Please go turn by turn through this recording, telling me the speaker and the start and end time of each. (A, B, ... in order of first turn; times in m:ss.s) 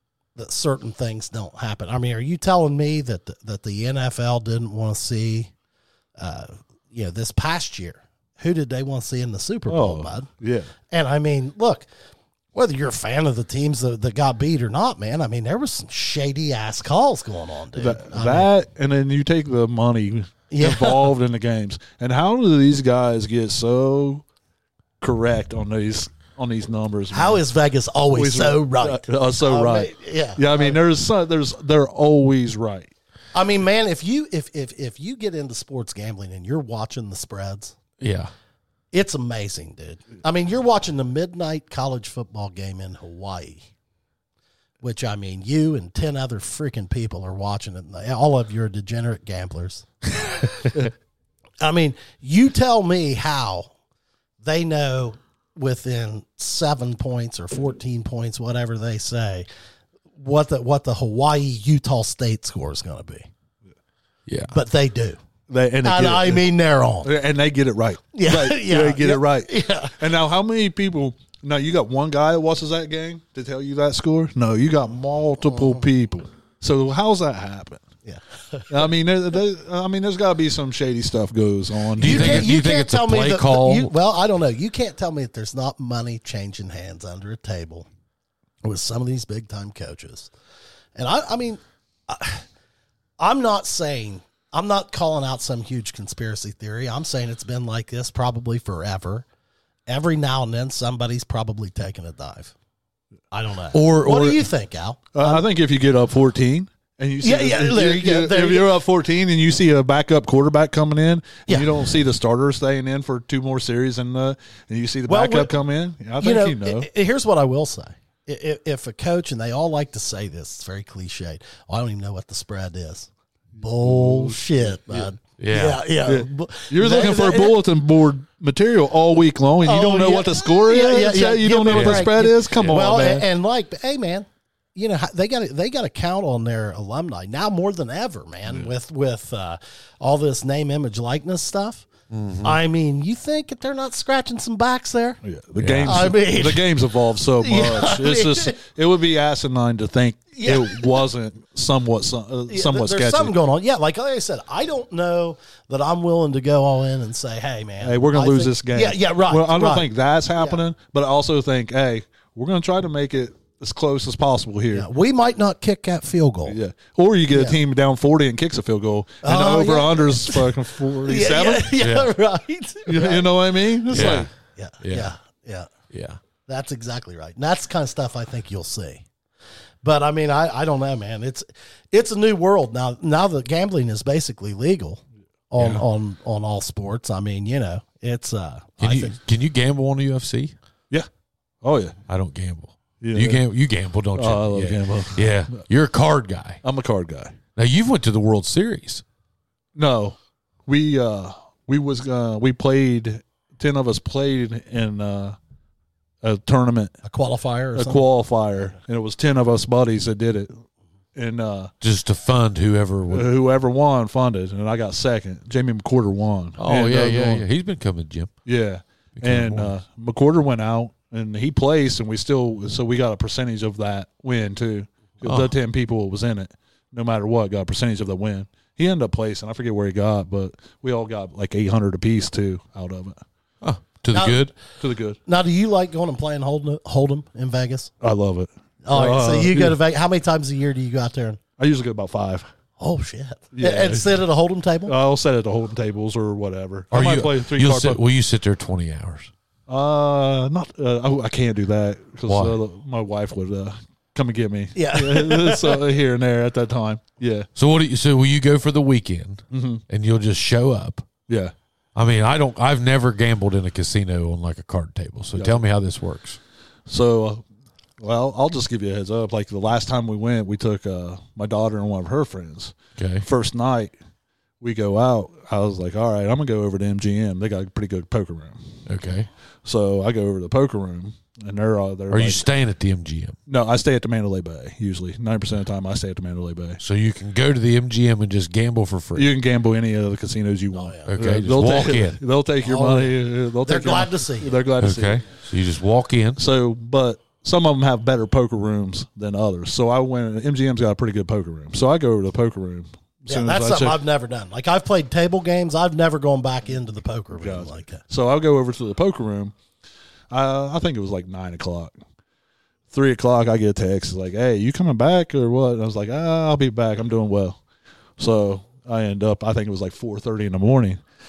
0:00.4-0:05.5 A
0:06.2-0:10.3 A
0:09.7-0:10.7 B
0:10.9-0:11.9 A
0:12.5-0:18.5 A
0:17.8-0:24.2 B
0:20.5-0:21.1 A
0:25.0-0:27.4 B
0:27.1-0:30.8 A
0:28.1-0:32.9 B
0:33.3-0:37.8 A
0:38.0-0:38.3 C
0:38.9-0:43.6 A
0:44.8-0:50.7 A
0:51.6-0:53.7 A
0:54.4-0:59.4 A
1:00.2-1:03.3 A
1:04.3-1:04.5 C
1:04.5-1:05.2 A
1:05.5-1:06.4 B
1:05.8-1:07.1 A
1:07.0-1:17.8 B
1:08.1-1:10.0 A
1:15.4-1:15.8 A
1:18.0-1:18.8 A
1:18.7-1:22.5 B
1:22.0-1:23.9 C
1:22.0-1:27.9 A
1:28.6-1:30.3 A
1:31.0-1:32.4 A
1:33.2-1:39.2 A
1:39.9-1:42.5 A
1:43.3-1:45.4 A
1:43.7-1:44.4 C
1:45.1-1:56.9 B
1:47.2-1:48.8 A
1:51.5-1:51.7 A
1:55.1-1:55.5 A
1:56.2-2:07.6 A
2:03.6-2:05.1 B
2:05.4-2:05.8 C
2:06.0-2:13.3 B
2:09.6-2:21.9 A
2:11.7-2:12.1 C
2:22.1-2:22.6 C
2:22.4-2:25.2 A
2:25.2-2:33.3 B
2:25.6-2:26.0 C
2:25.8-2:26.7 A
2:27.4-2:28.6 A
2:30.4-2:31.1 A
2:32.5-2:40.6 A
2:37.8-2:44.9 B
2:44.7-2:46.6 A
2:46.4-2:51.8 B
2:47.3-2:47.6 A
2:49.2-2:55.7 A
2:51.8-2:52.1 C
2:52.9-2:54.3 B
2:53.9-2:54.3 C
2:54.8-2:55.1 C
2:55.9-2:56.2 C
2:56.5-2:59.0 A
2:59.8-3:09.2 A
3:05.6-3:05.8 C
3:08.8-3:10.5 C
3:11.6-3:12.0 B
3:12.1-3:16.6 C
3:13.0-3:13.4 B
3:14.1-3:15.3 B
3:16.6-3:17.3 B
3:17.6-3:19.0 C
3:19.8-3:25.4 B
3:26.2-3:26.9 B
3:27.0-3:28.0 A
3:27.7-3:30.5 B
3:31.1-3:31.7 B
3:31.8-3:33.3 C
3:33.1-3:37.4 B
3:36.6-3:38.3 C
3:38.4-3:53.2 B
3:39.2-3:39.7 C
3:45.2-3:45.5 C
3:53.6-3:54.5 C
3:54.1-3:54.4 A
3:54.8-3:55.2 B
3:55.3-3:57.9 A
3:58.0-3:59.8 B
3:58.8-4:01.4 A
4:01.6-4:02.5 B
4:02.8-4:04.9 A
4:03.5-4:04.2 B
4:04.9-4:08.0 B
4:06.9-4:09.3 C
4:09.7-4:17.5 B
4:12.3-4:12.6 C
4:14.7-4:15.9 A
4:17.6-4:21.0 C
4:19.5-4:19.8 B
4:21.3-4:21.5 B
4:21.9-4:26.4 C
4:25.4-4:25.6 B
4:26.9-4:27.4 B
4:28.0-4:33.9 B
4:33.0-4:33.2 C
4:34.6-4:38.6 B
4:38.9-4:39.3 C
4:39.6-4:42.4 B
4:42.1-4:43.4 C
4:43.5-4:46.8 B
4:46.8-4:49.3 C
4:49.2-4:55.2 B
4:50.7-4:51.1 A
4:51.1-4:52.2 C
4:52.6-4:54.6 A
4:54.8-4:56.4 C
4:56.4-5:04.0 B
5:03.3-5:08.0 A
5:07.4-5:09.5 B
5:10.3-5:11.9 B
5:12.9-5:17.6 B
5:18.2-5:21.0 B